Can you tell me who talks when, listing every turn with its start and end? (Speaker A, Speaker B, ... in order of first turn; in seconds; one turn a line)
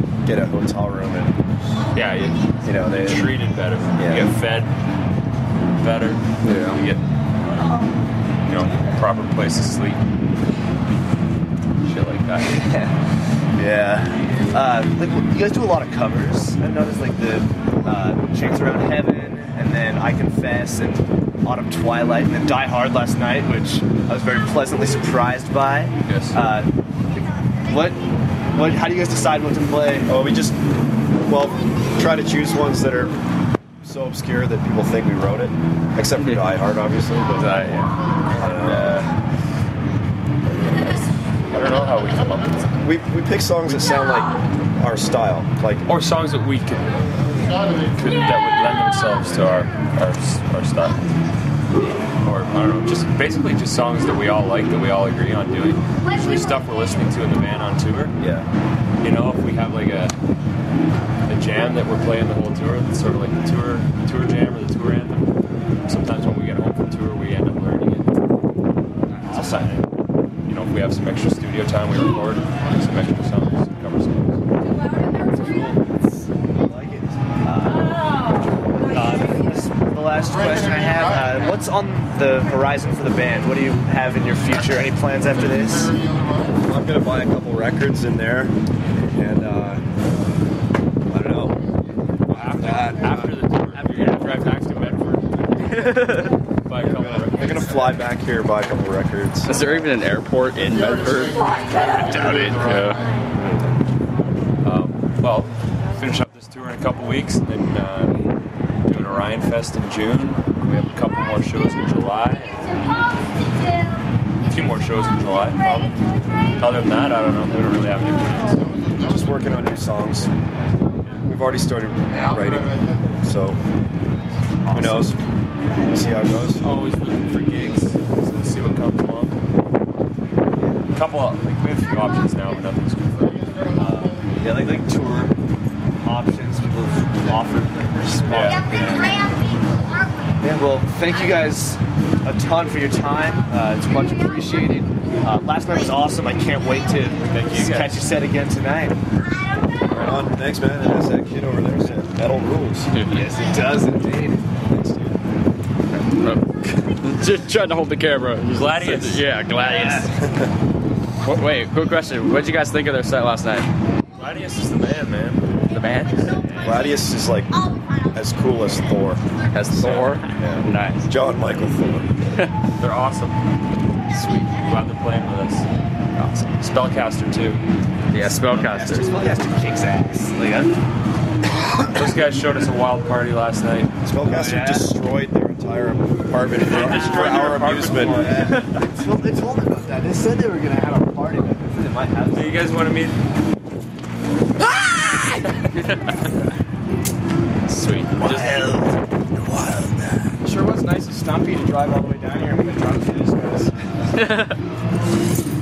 Speaker A: 0.2-1.8
Speaker B: 1.9-4.7
Speaker A: 2.6-3.3
Speaker A: 4.0-4.3
Speaker B: 5.8-7.0
Speaker C: 6.4-6.8
Speaker B: 7.6-7.8
Speaker B: 8.4-10.0
Speaker B: 11.9-12.2
Speaker D: 12.3-12.9
Speaker D: 13.5-28.0
Speaker B: 26.0-26.4
Speaker D: 28.5-30.1
Speaker A: 30.1-30.6
Speaker A: 31.2-33.1
Speaker A: 33.8-37.6
Speaker C: 36.2-36.5
Speaker C: 37.4-37.9
Speaker B: 38.3-39.0
Speaker A: 38.4-39.1
Speaker B: 41.5-42.8
Speaker A: 42.8-45.8
Speaker B: 45.9-47.0
Speaker B: 47.9-51.0
Speaker B: 52.2-58.1
Speaker A: 58.2-58.5
Speaker B: 59.0-60.1
Speaker B: 61.3-65.3
Speaker B: 65.9-68.1
Speaker D: 69.2-69.7
Speaker B: 69.2-69.9
Speaker B: 70.5-74.4
Speaker D: 74.9-78.2
Speaker D: 78.8-86.0
Speaker A: 86.6-88.5
Speaker A: 89.1-89.8
Speaker A: 91.1-91.6
Speaker B: 92.3-95.2
Speaker D: 92.3-92.9
Speaker A: 92.5-93.2
Speaker D: 93.7-95.2
Speaker D: 95.8-96.2
Speaker C: 95.8-96.3
Speaker B: 96.6-97.8
Speaker A: 96.8-99.9
Speaker C: 99.5-103.1
Speaker A: 103.3-103.7
Speaker B: 104.6-112.8
Speaker B: 114.4-116.0
Speaker B: 116.6-118.7
Speaker A: 119.0-120.3
Speaker A: 121.2-123.6
Speaker B: 124.7-125.0
Speaker A: 124.7-125.2
Speaker A: 125.9-126.6
Speaker B: 126.6-129.4
Speaker B: 130.9-133.6
Speaker D: 133.7-135.3
Speaker D: 136.0-139.2
Speaker B: 138.3-138.7
Speaker D: 140.4-149.0
Speaker B: 147.3-148.0
Speaker A: 149.9-152.9
Speaker C: 152.9-153.2
Speaker D: 153.1-154.5
Speaker A: 154.6-155.2
Speaker C: 155.9-160.2
Speaker B: 158.5-159.3
Speaker D: 159.6-160.1
Speaker A: 160.2-160.5
Speaker C: 161.2-163.7
Speaker B: 164.2-165.5
Speaker C: 165.7-166.4
Speaker B: 166.4-166.9
Speaker A: 166.6-172.4
Speaker C: 169.5-171.1
Speaker B: 172.8-173.4
Speaker C: 174.1-174.6
Speaker B: 174.6-175.7
Speaker C: 176.2-176.5
Speaker B: 176.6-177.6
Speaker C: 178.1-179.1
Speaker D: 178.5-180.7
Speaker B: 181.9-183.9
Speaker A: 184.0-188.5
Speaker D: 184.2-184.9
Speaker B: 186.5-188.7
Speaker D: 186.7-192.7
Speaker B: 192.3-193.2
Speaker C: 195.0-196.1
Speaker C: 197.7-198.8
Speaker D: 198.2-199.0
Speaker C: 199.4-200.2
Speaker D: 200.4-203.7
Speaker C: 204.2-204.6